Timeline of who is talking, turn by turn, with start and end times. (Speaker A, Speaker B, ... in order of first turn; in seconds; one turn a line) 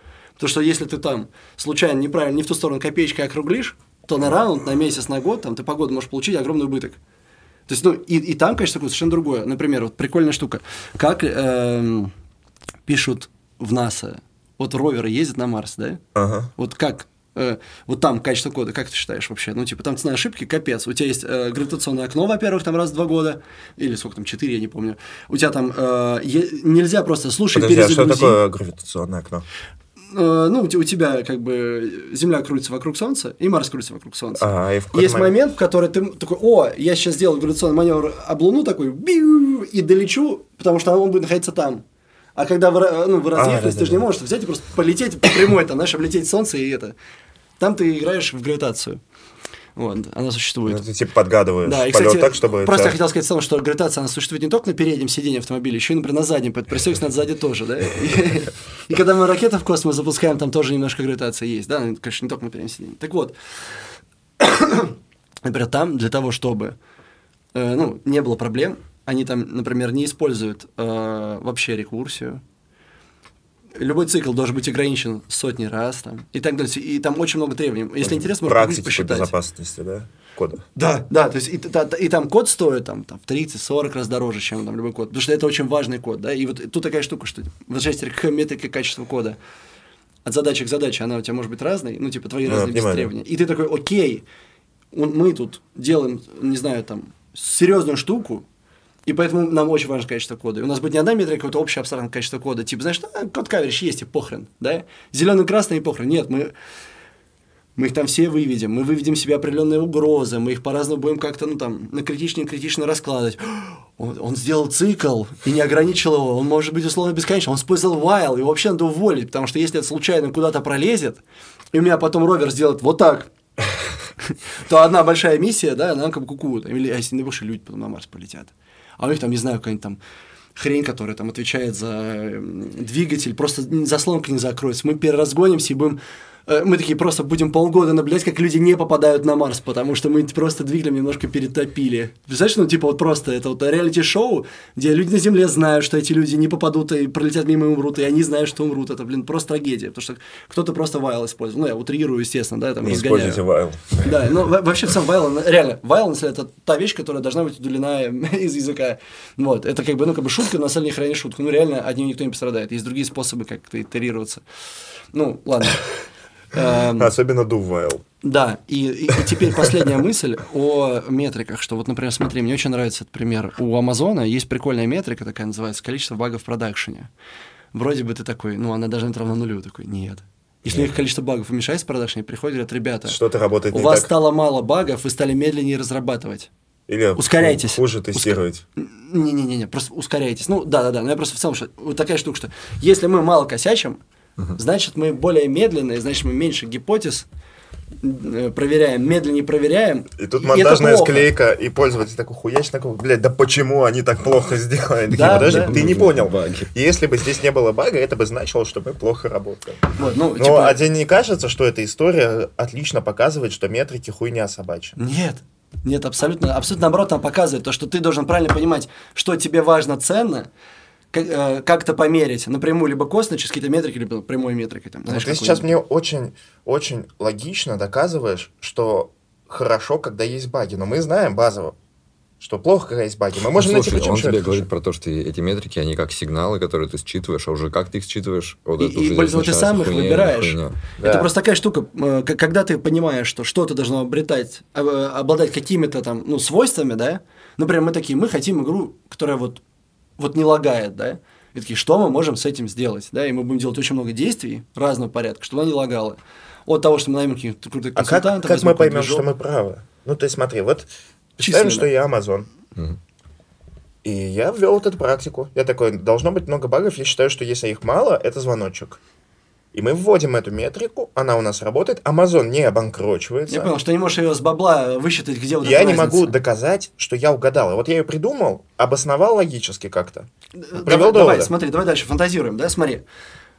Speaker A: 0.4-7.0
Speaker A: 7.7-12.1
Speaker A: 12.8-16.0
Speaker B: 16.1-16.5
Speaker A: 16.6-28.4
Speaker B: 27.5-29.4
Speaker A: 30.1-41.8
Speaker B: 34.4-35.4
Speaker A: 42.4-46.9
Speaker B: 43.4-44.1
Speaker A: 47.6-49.0
Speaker A: 49.8-50.8
Speaker B: 50.6-53.0
Speaker A: 51.6-63.3
Speaker A: 64.4-66.8
Speaker A: 67.5-72.4
Speaker A: 73.8-79.3
Speaker B: 78.0-80.6
Speaker A: 80.8-89.4
Speaker A: 90.2-94.2
Speaker B: 92.5-93.1
Speaker A: 94.9-98.5
Speaker A: 99.0-106.5
Speaker A: 107.8-121.2
Speaker A: 121.7-123.3
Speaker A: 124.7-130.0
Speaker A: 130.6-153.4
Speaker B: 152.8-154.3
Speaker A: 154.0-164.4
Speaker A: 165.1-165.9
Speaker A: 166.5-167.1
Speaker B: 166.8-168.0
Speaker A: 168.2-177.1
Speaker A: 177.7-183.2
Speaker B: 183.1-184.1
Speaker A: 183.7-186.5
Speaker B: 186.9-188.6
Speaker A: 187.1-194.0
Speaker A: 194.6-197.2
Speaker A: 198.0-201.3
Speaker B: 200.2-215.0
Speaker A: 205.1-205.8
Speaker C: 205.1-206.7
Speaker A: 210.0-210.8
Speaker A: 215.0-220.5
Speaker A: 221.1-225.7
Speaker B: 225.1-231.8
Speaker B: 232.4-234.6
Speaker C: 233.4-240.8
Speaker A: 238.8-249.6
Speaker B: 241.0-241.3
Speaker A: 250.2-259.2
Speaker B: 257.9-262.5
Speaker A: 261.4-261.9
Speaker B: 264.0-269.0
Speaker B: 269.7-273.7
Speaker A: 273.5-276.4
Speaker B: 275.6-281.5
Speaker A: 280.6-283.0